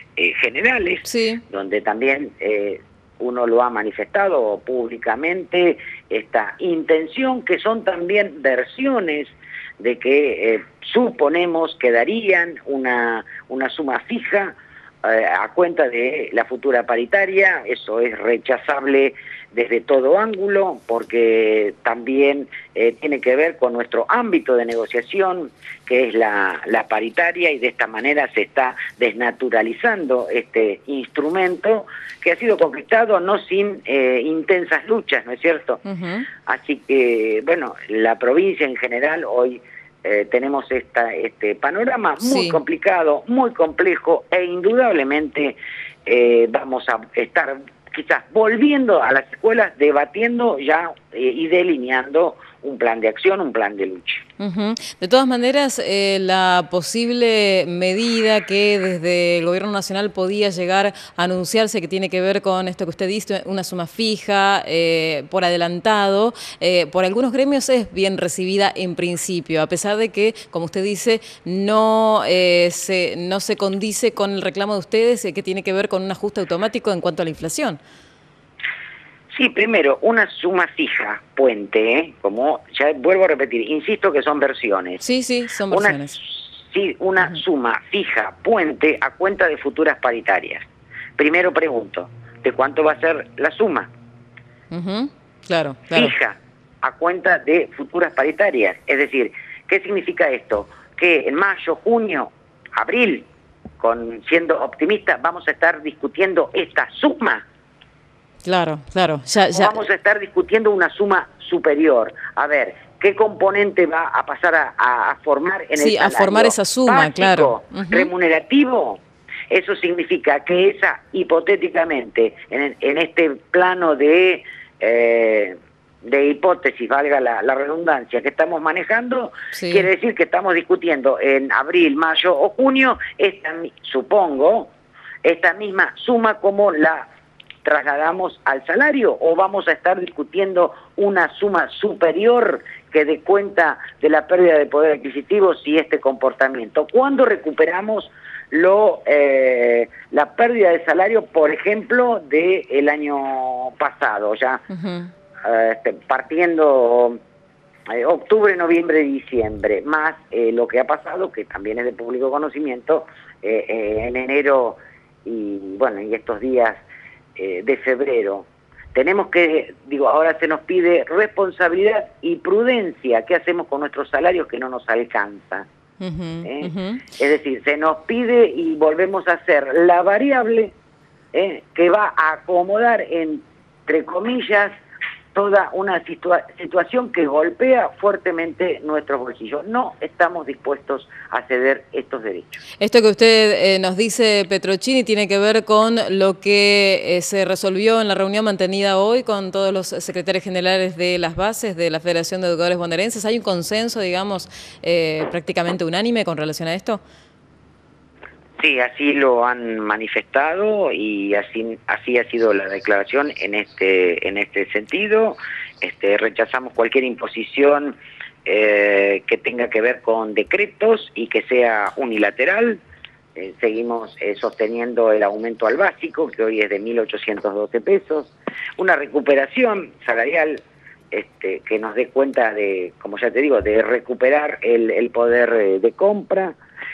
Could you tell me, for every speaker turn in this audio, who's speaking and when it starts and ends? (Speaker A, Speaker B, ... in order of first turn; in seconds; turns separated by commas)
Speaker A: 0.2-35.8, Speaker B: 1.0-1.4, Speaker B: 35.8-36.3, Speaker A: 36.4-54.2, Speaker B: 42.2-42.6, Speaker B: 54.4-77.8, Speaker A: 79.3-85.0, Speaker B: 85.0-86.2, Speaker A: 85.7-90.7, Speaker A: 91.2-93.9, Speaker B: 94.7-96.1, Speaker A: 95.9-103.3, Speaker A: 103.8-107.4, Speaker B: 108.4-109.8, Speaker A: 109.5-134.7, Speaker B: 115.8-118.1, Speaker B: 129.5-129.9, Speaker A: 135.2-137.1, Speaker A: 137.6-154.6, Speaker B: 154.7-155.1, Speaker A: 155.4-157.2, Speaker A: 157.9-166.8, Speaker A: 167.3-175.7, Speaker B: 176.0-177.1, Speaker A: 176.4-180.7, Speaker A: 181.3-184.7, Speaker A: 185.3-192.6, Speaker B: 192.8-207.0, Speaker A: 208.6-222.8, Speaker A: 223.3-236.6